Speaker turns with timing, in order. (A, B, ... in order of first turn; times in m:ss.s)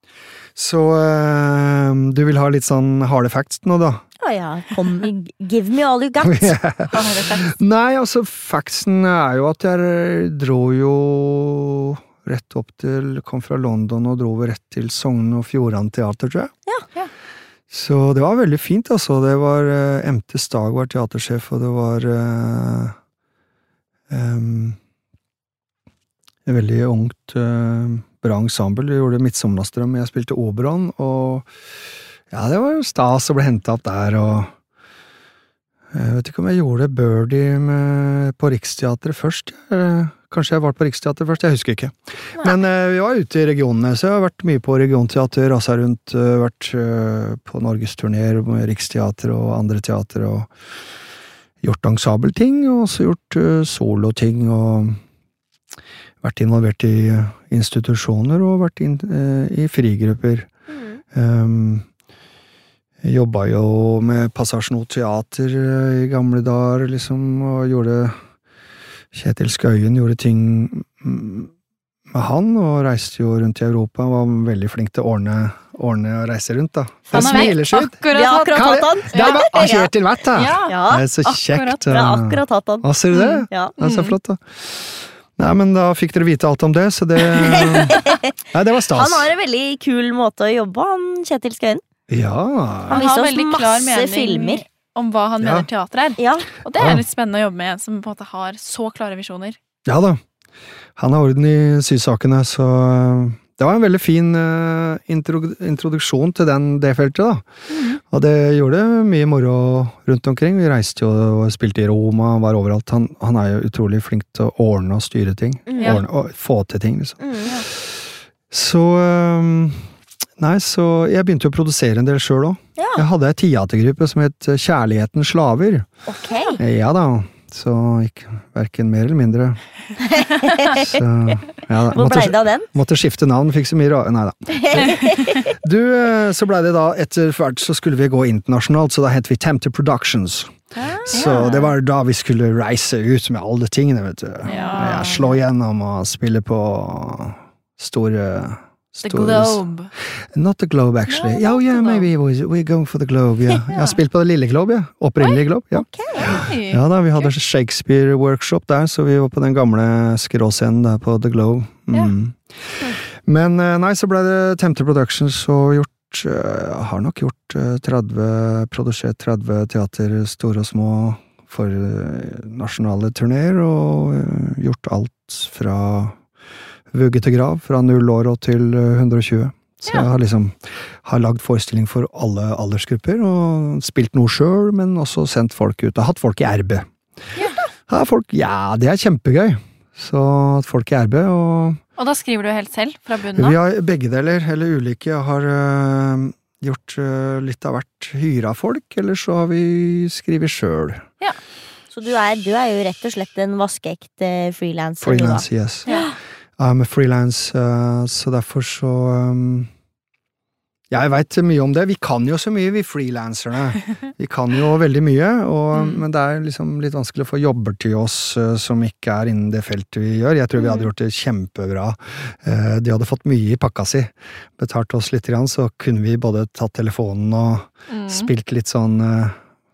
0:00.6-0:04.0 A
0:04.2-0:06.6 B
0:06.2-0:16.5 A
0:06.9-0:07.5 C
0:17.7-0:23.0 A
0:24.1-0:24.8 A
0:26.5-0:31.5 A
0:32.3-0:34.5 A
0:35.9-0:50.5 A
0:51.6-0:55.0 A
0:56.2-1:00.5 A
1:00.7-1:01.0 B
1:01.1-1:01.9 A
1:03.0-1:08.2 A
1:09.1-1:11.5 A
1:12.1-1:18.0 A
1:17.1-1:17.6 B
1:17.1-1:19.7 C
1:18.1-1:19.9 B
1:18.5-1:29.3 A
1:20.3-1:21.8 C
1:20.7-1:21.1 B
1:21.8-1:22.9 B
1:23.1-1:24.2 C
1:23.5-1:23.7 B
1:27.5-1:28.3 B
1:27.6-1:28.0 C
1:28.9-1:31.8 B
1:32.1-1:33.0 A
1:32.9-1:34.6 B
1:32.9-1:39.6 C
1:35.4-1:35.7 A
1:36.2-1:36.5 B
1:36.8-1:37.0 A
1:39.9-1:40.2 A
1:41.0-1:47.4 A
1:47.7-1:48.0 C
1:48.0-1:59.9 A
1:55.7-1:56.0 B
1:57.2-1:57.6 B
2:00.4-2:05.9 A
2:02.8-2:03.1 B
2:06.1-2:06.6 B
2:06.6-2:09.6 A
2:10.0-2:11.0 B
2:10.6-2:20.5 A
2:11.9-2:12.7 B
2:14.5-2:15.6 B
2:20.8-2:21.3 B
2:21.0-2:29.6 A
2:21.1-2:21.7 C
2:24.4-2:25.3 C
2:24.5-2:25.4 B
2:29.0-2:29.9 C
2:30.3-2:56.2 A
2:31.1-2:32.1 C
2:33.7-2:34.0 C
2:35.7-2:36.3 B
2:36.2-2:37.3 C
2:56.9-3:06.9 A
3:07.9-3:11.8 A
3:12.0-3:13.6 C
3:13.4-3:21.0 A
3:21.9-3:26.2 B
3:25.0-3:25.9 A
3:26.6-3:29.7 A
3:30.9-3:49.4 A
3:35.7-3:36.0 C
3:47.9-3:48.3 C